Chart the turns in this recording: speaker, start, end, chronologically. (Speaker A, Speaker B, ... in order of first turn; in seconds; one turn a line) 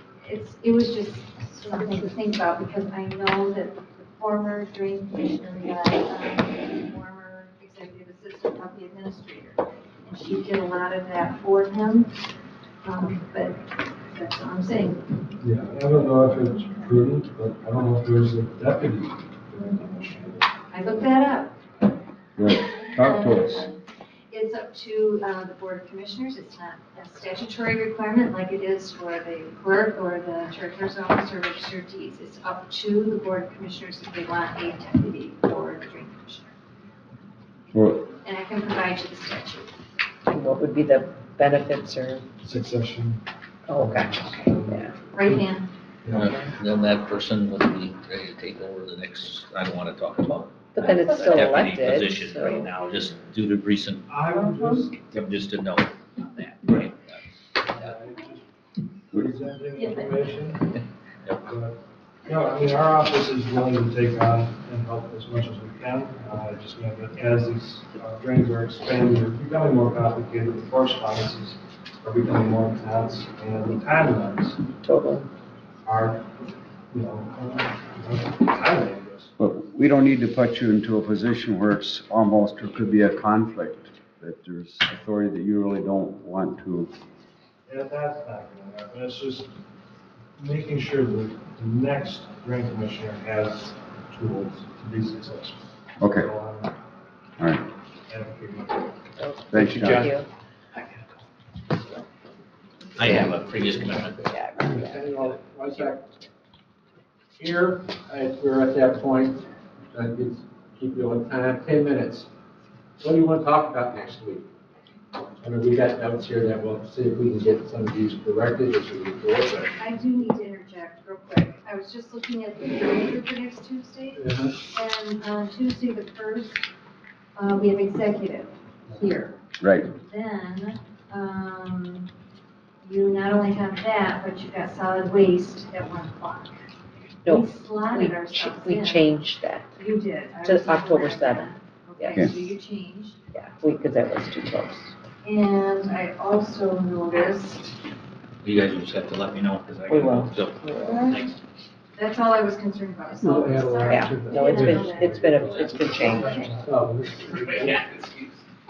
Speaker A: 0.2-12.2
Speaker A: 12.8-15.1
Speaker B: 15.4-20.4
Speaker A: 20.7-21.6
Speaker C: 22.4-23.7
Speaker A: 22.8-23.8
Speaker A: 24.3-36.5
Speaker C: 37.7-38.0
Speaker A: 38.1-39.7
Speaker D: 40.3-42.2
Speaker B: 42.4-43.2
Speaker D: 43.7-44.9
Speaker B: 43.7-45.3
Speaker A: 45.1-45.7
Speaker B: 46.0-46.5
Speaker E: 46.1-54.1
Speaker D: 50.7-52.7
Speaker B: 54.1-55.0
Speaker E: 55.0-57.2
Speaker B: 57.6-58.4
Speaker B: 59.1-60.7
Speaker A: 59.7-60.5
Speaker B: 61.4-74.6
Speaker D: 74.8-75.2
Speaker B: 75.8-76.3
Speaker B: 76.9-79.3
Speaker C: 79.4-86.9
Speaker B: 87.7-89.5
Speaker B: 90.4-96.7
Speaker C: 96.0-96.3
Speaker C: 97.4-97.7
Speaker B: 98.1-98.9
Speaker D: 99.2-100.3
Speaker C: 99.5-100.1
Speaker E: 103.0-104.2
Speaker F: 103.2-106.1
Speaker D: 104.3-105.3
Speaker F: 107.4-112.3
Speaker F: 113.0-114.5
Speaker F: 115.4-119.7
Speaker A: 119.8-126.7
Speaker F: 124.2-124.6
Speaker A: 127.3-132.1
Speaker C: 129.6-129.9
Speaker A: 132.8-136.5
Speaker D: 137.2-139.7
Speaker A: 137.3-139.1
Speaker A: 139.8-143.2
Speaker D: 140.4-142.3
Speaker D: 143.3-144.9
Speaker A: 145.2-147.8
Speaker E: 148.4-151.3
Speaker D: 149.9-151.2
Speaker A: 150.9-151.2
Speaker A: 151.9-156.6
Speaker F: 153.2-157.8
Speaker D: 153.9-156.4
Speaker E: 155.5-155.8
Speaker B: 155.9-157.1
Speaker E: 157.5-158.2